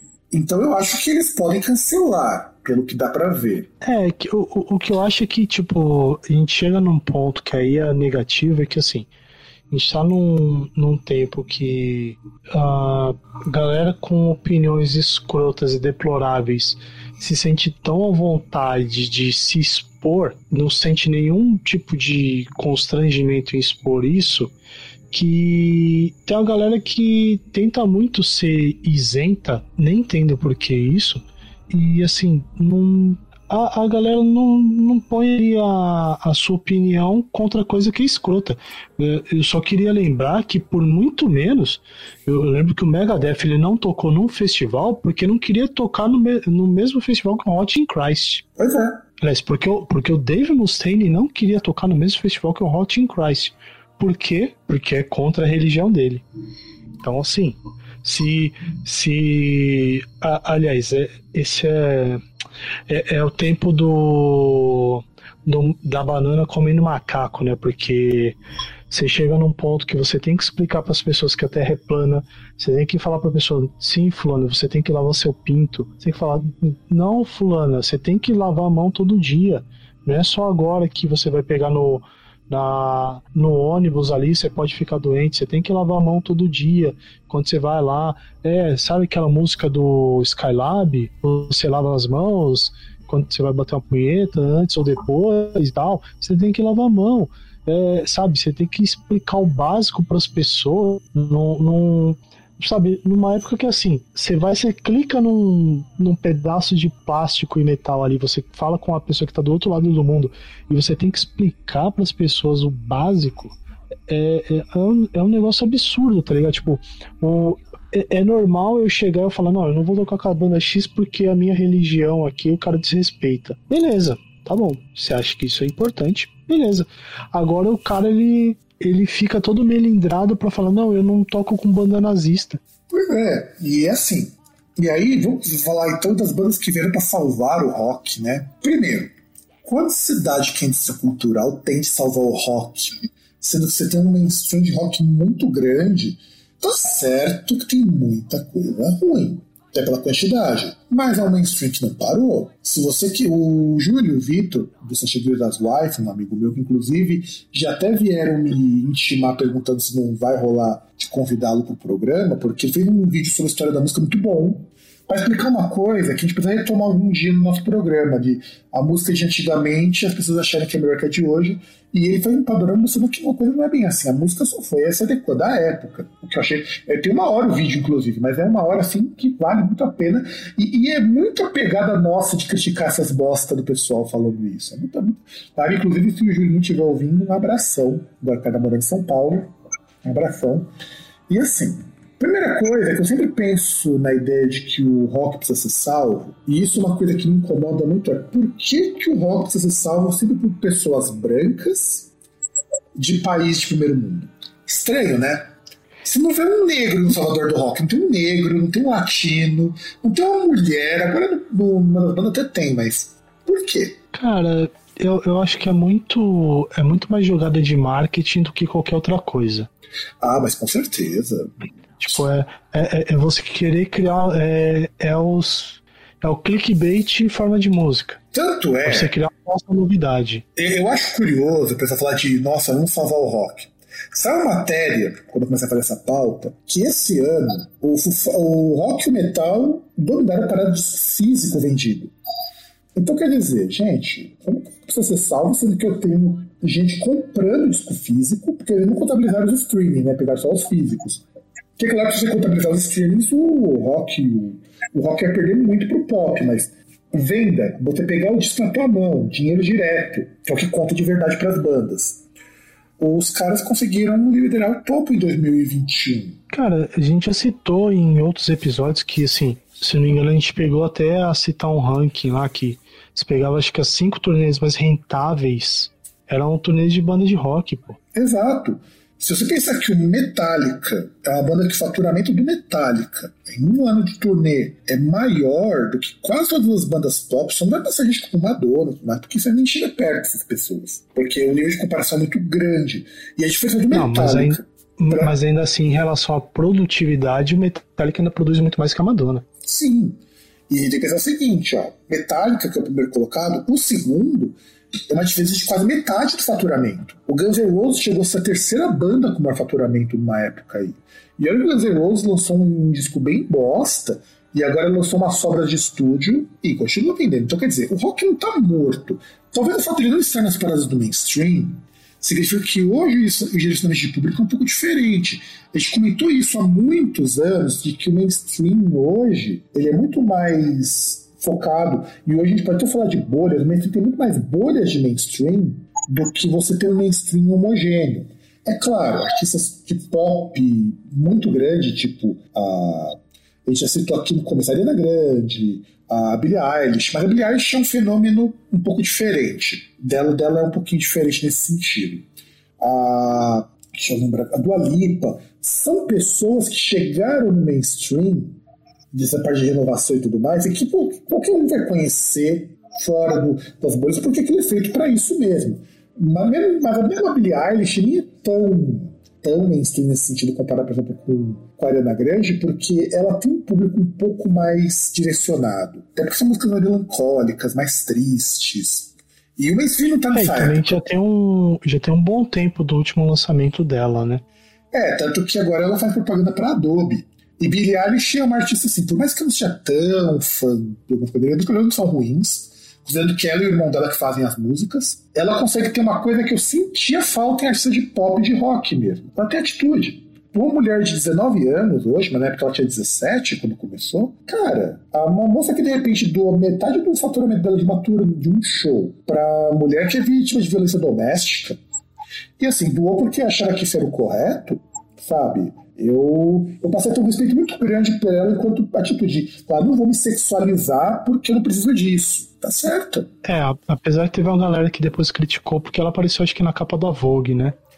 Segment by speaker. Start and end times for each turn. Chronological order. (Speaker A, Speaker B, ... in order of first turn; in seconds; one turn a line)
Speaker A: 0.3-3.7
Speaker B: 3.8-9.1
Speaker B: 9.7-24.5
Speaker B: 25.1-48.4
Speaker A: 48.6-49.0
Speaker B: 49.2-56.2
Speaker B: 57.0-62.2
Speaker B: 62.9-68.4
Speaker B: 68.9-113.6
Speaker B: 114.1-132.6
Speaker A: 132.9-190.7
Speaker A: 191.3-202.1
Speaker A: 202.9-205.5
Speaker A: 206.0-214.0
Speaker B: 214.1-219.7
Speaker A: 220.2-222.2
Speaker B: 222.0-228.2
Speaker A: 228.3-229.1
Speaker B: 228.8-230.4
Speaker A: 230.6-242.1
Speaker A: 242.9-251.2
Speaker A: 251.8-262.2
Speaker A: 263.0-266.4
Speaker B: 266.5-278.0
Speaker A: 278.1-295.3
Speaker B: 293.9-299.4
Speaker A: 299.6-352.3
Speaker A: 352.8-358.6
Speaker A: 359.1-381.0
Speaker B: 380.3-384.4
Speaker A: 384.9-411.8
Speaker A: 412.6-423.3
Speaker B: 423.4-427.8